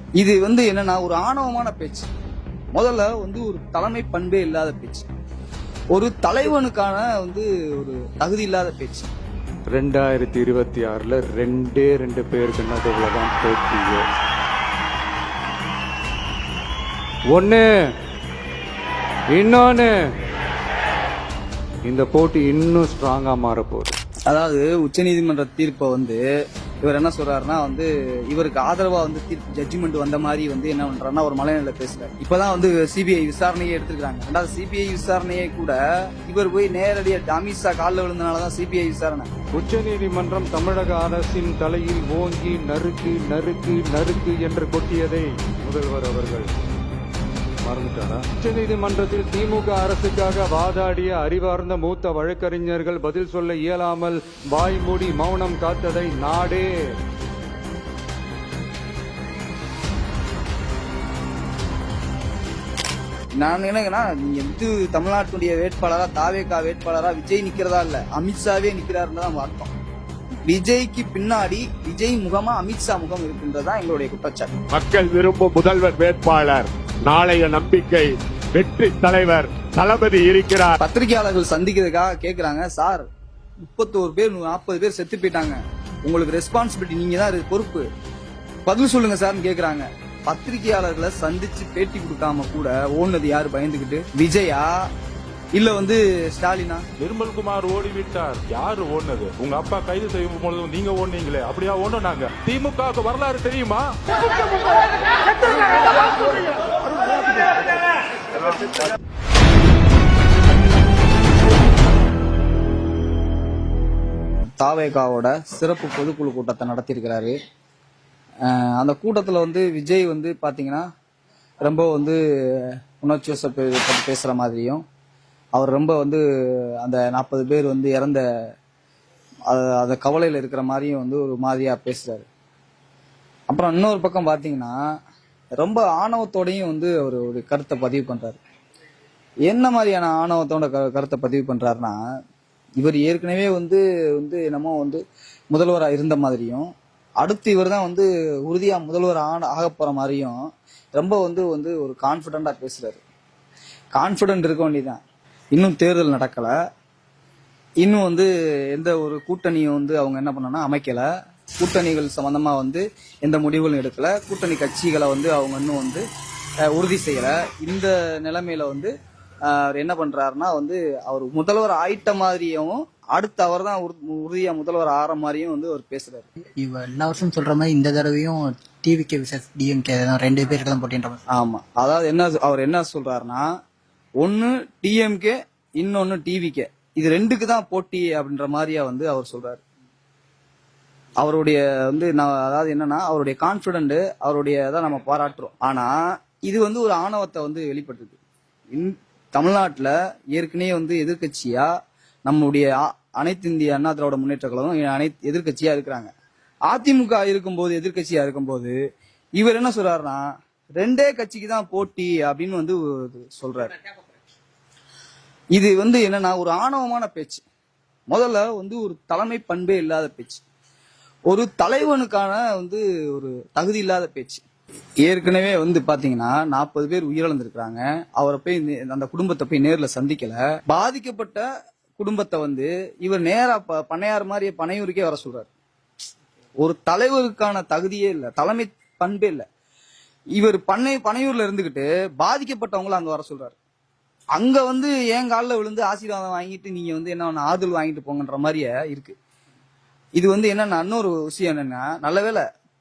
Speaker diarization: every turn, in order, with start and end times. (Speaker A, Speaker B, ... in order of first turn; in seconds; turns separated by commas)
Speaker A: 0.2-2.1, Speaker A: 2.7-5.1, Speaker A: 5.9-9.1, Speaker B: 9.7-14.1, Speaker B: 17.3-17.7, Speaker B: 19.3-20.0, Speaker B: 21.9-24.0, Speaker A: 24.3-26.2, Speaker A: 26.8-39.3, Speaker B: 39.5-46.5, Speaker B: 47.6-56.7, Speaker A: 63.4-69.7, Speaker A: 70.5-74.5, Speaker C: 74.7-80.8, Speaker A: 80.8-83.0, Speaker A: 83.6-87.8, Speaker A: 88.7-94.7, Speaker A: 95.5-96.8, Speaker D: 97.0-104.0, Speaker A: 114.6-117.3, Speaker A: 118.4-120.8, Speaker A: 121.6-124.8, Speaker A: 125.5-126.2, Speaker A: 126.8-128.2, Speaker A: 129.5-132.3, Speaker A: 133.5-134.8, Speaker A: 135.6-138.4, Speaker A: 139.5-142.0, Speaker A: 142.8-146.7, Speaker A: 147.2-150.4, Speaker A: 150.9-153.0, Speaker A: 153.9-155.0, Speaker A: 155.5-156.5, Speaker A: 157.8-161.1, Speaker A: 161.6-166.0, Speaker A: 166.7-168.9, Speaker A: 169.5-176.3, Speaker E: 176.6-181.2, Speaker A: 181.3-183.5, Speaker A: 184.2-189.6, Speaker A: 191.2-198.2, Speaker A: 198.7-201.7, Speaker A: 202.3-206.1, Speaker A: 206.7-208.7, Speaker A: 209.4-213.7, Speaker A: 215.5-217.4, Speaker A: 218.1-220.4, Speaker A: 221.3-224.4, Speaker A: 225.0-231.4, Speaker A: 232.0-235.5, Speaker A: 236.6-239.4, Speaker A: 240.3-243.6, Speaker A: 244.3-249.1, Speaker A: 250.2-252.4